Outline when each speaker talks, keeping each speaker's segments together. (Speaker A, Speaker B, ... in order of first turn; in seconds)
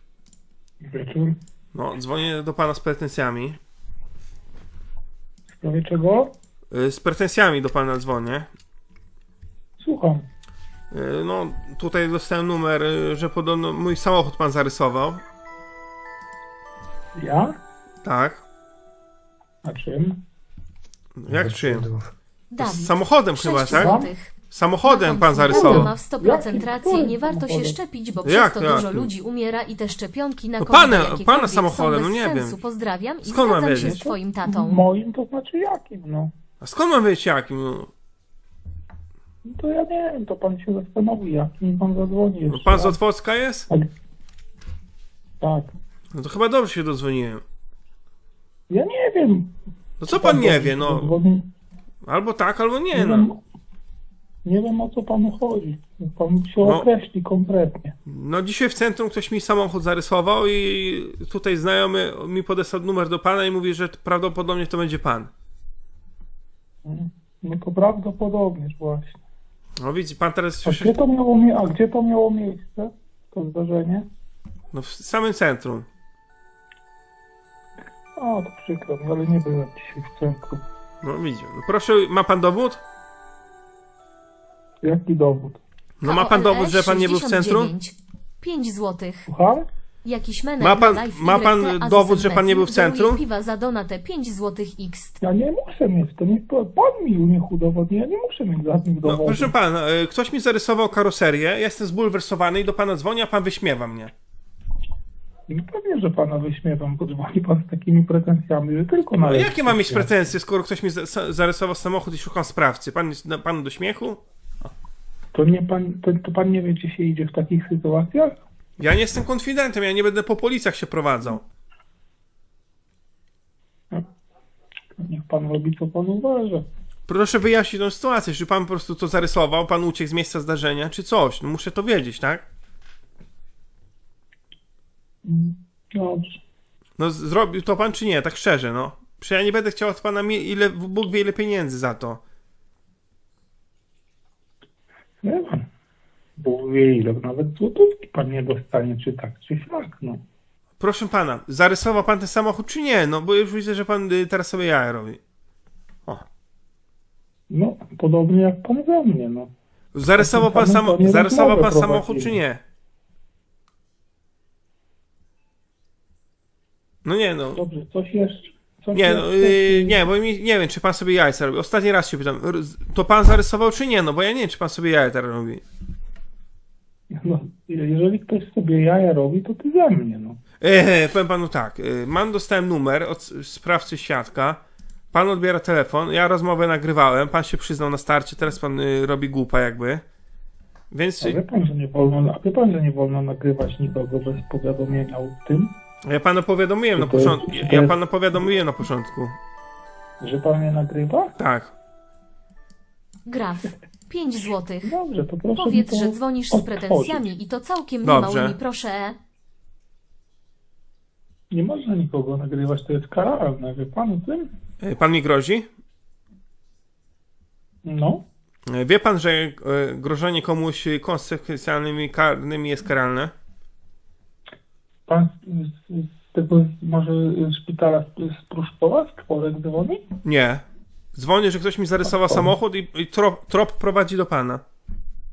Speaker A: 0.8-1.3, 5.6-6.3, 9.8-10.2, 17.2-17.5, 19.6-20.1, 23.7-24.1, 25.5-27.8, 33.7-36.3, 39.5-43.0, 45.4-45.7, 48.7-49.5, 50.0-51.5, 52.9-53.4, 54.4-57.9, 66.8-69.2, 70.6-74.0, 78.2-80.6, 84.8-85.6, 89.3-89.7, 95.2-99.5, 105.5-110.1, 115.3-118.4, 125.0-126.6, 135.2-136.4, 145.2-145.6, 146.4-150.2, 157.5-159.5, 160.2-162.4, 167.5-170.0, 177.1-180.4, 191.2-195.7, 196.9-198.0, 200.2-201.3, 204.8-207.3, 211.5-214.5, 217.8-218.2, 225.1-230.0, 232.1-232.4
Speaker B: 1.7-3.6, 6.7-8.5, 10.9-15.2, 18.0-18.4, 21.2-21.9, 22.6-24.0, 24.5-25.9, 28.2-29.1, 30.6-32.6, 33.2-34.0, 36.6-37.9, 42.5-43.7, 46.1-47.4, 50.0-51.1, 52.0-53.3, 58.1-65.3, 69.8-71.0, 74.7-75.9, 81.0-82.8, 86.0-87.7, 90.6-93.2, 99.0-104.1, 109.2-114.2, 118.8-121.4, 127.1-132.4, 137.0-142.2, 150.8-155.2, 159.9-162.6, 167.0-167.6, 168.9-175.6, 180.6-184.6, 185.1-190.0, 190.9-191.4, 196.0-199.4, 201.4-201.7, 208.0-208.6, 214.8-215.7, 218.7-223.3, 230.2-230.6, 231.1-234.6
Speaker C: 22.5-24.3, 24.8-34.8, 86.0-89.2, 90.0-95.2, 203.2-204.9, 205.5-209.2